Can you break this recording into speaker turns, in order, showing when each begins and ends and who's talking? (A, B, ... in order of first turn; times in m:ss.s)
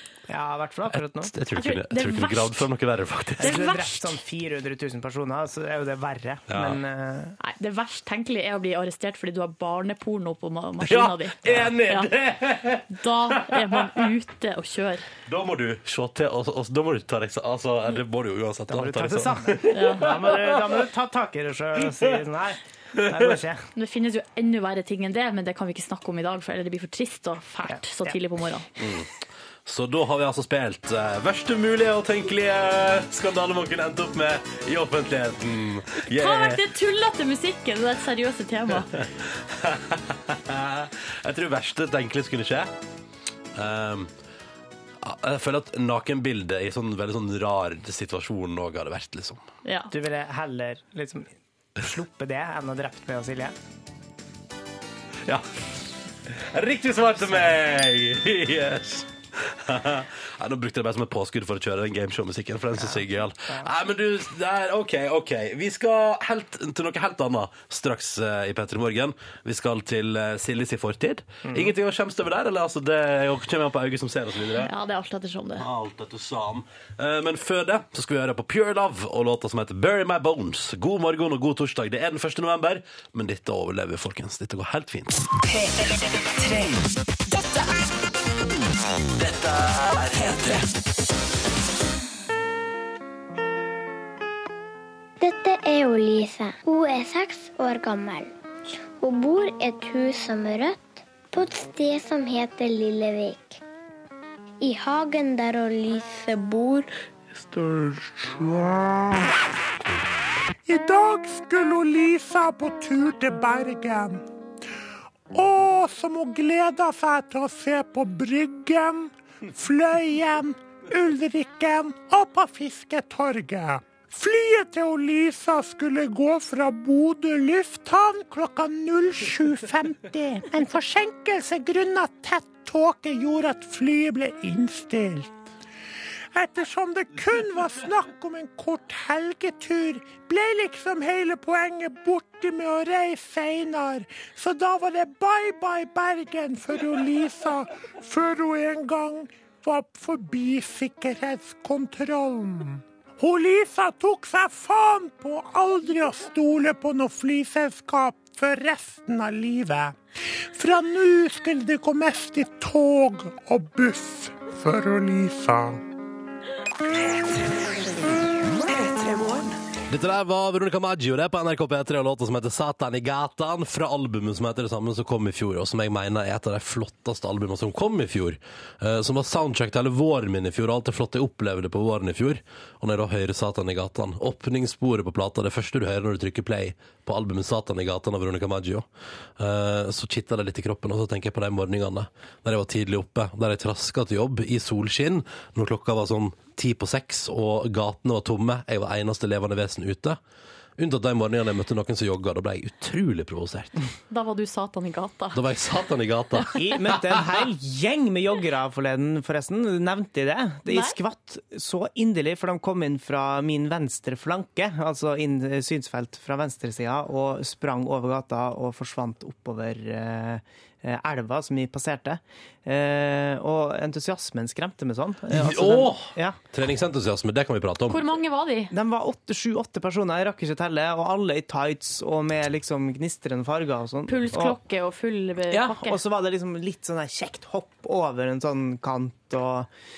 0:00.3-0:01.3 A
0:00.9-0:03.7 B
0:01.5-0:02.6 C
0:03.4-0:04.1 C
0:03.4-0:07.4 A
0:06.5-0:06.8 B
0:07.4-0:12.1 C
0:10.8-0:13.8 B
0:12.9-0:15.0 C
0:15.3-0:20.8 B
0:18.7-0:23.6 A
0:19.7-0:20.1 C
0:23.8-0:28.6 C
0:27.6-0:28.2 A
0:28.8-0:29.1 B
0:29.6-0:36.6 B
0:36.1-0:38.9 C
0:39.5-0:42.7 B
0:43.6-0:44.1 B
0:45.0-0:49.4 B
0:49.6-0:49.9 C
0:49.9-0:53.5 A
0:56.4-1:14.7 B
1:02.8-1:03.7 A
1:14.6-1:15.6 C
1:15.6-1:25.3 B
1:25.4-1:26.8 D
1:29.2-1:30.6 B
1:35.2-1:38.3 E
1:39.0-1:43.6 E
1:44.6-1:46.9 E
1:50.7-1:54.2 F
1:55.3-2:15.3 F
2:16.3-2:40.0 F
2:40.5-2:45.8 F
2:48.6-2:49.6 D
2:49.9-3:08.8 B
3:09.4-3:20.2 B
3:20.8-3:23.7 B
3:24.1-3:25.4 C
3:25.3-3:27.0 B
3:26.5-3:46.4 A
3:30.7-3:30.9 C
3:45.3-3:48.0 B
3:47.9-3:48.7 C
3:48.7-3:54.6 A
3:54.1-3:56.0 C
3:55.5-3:59.7 A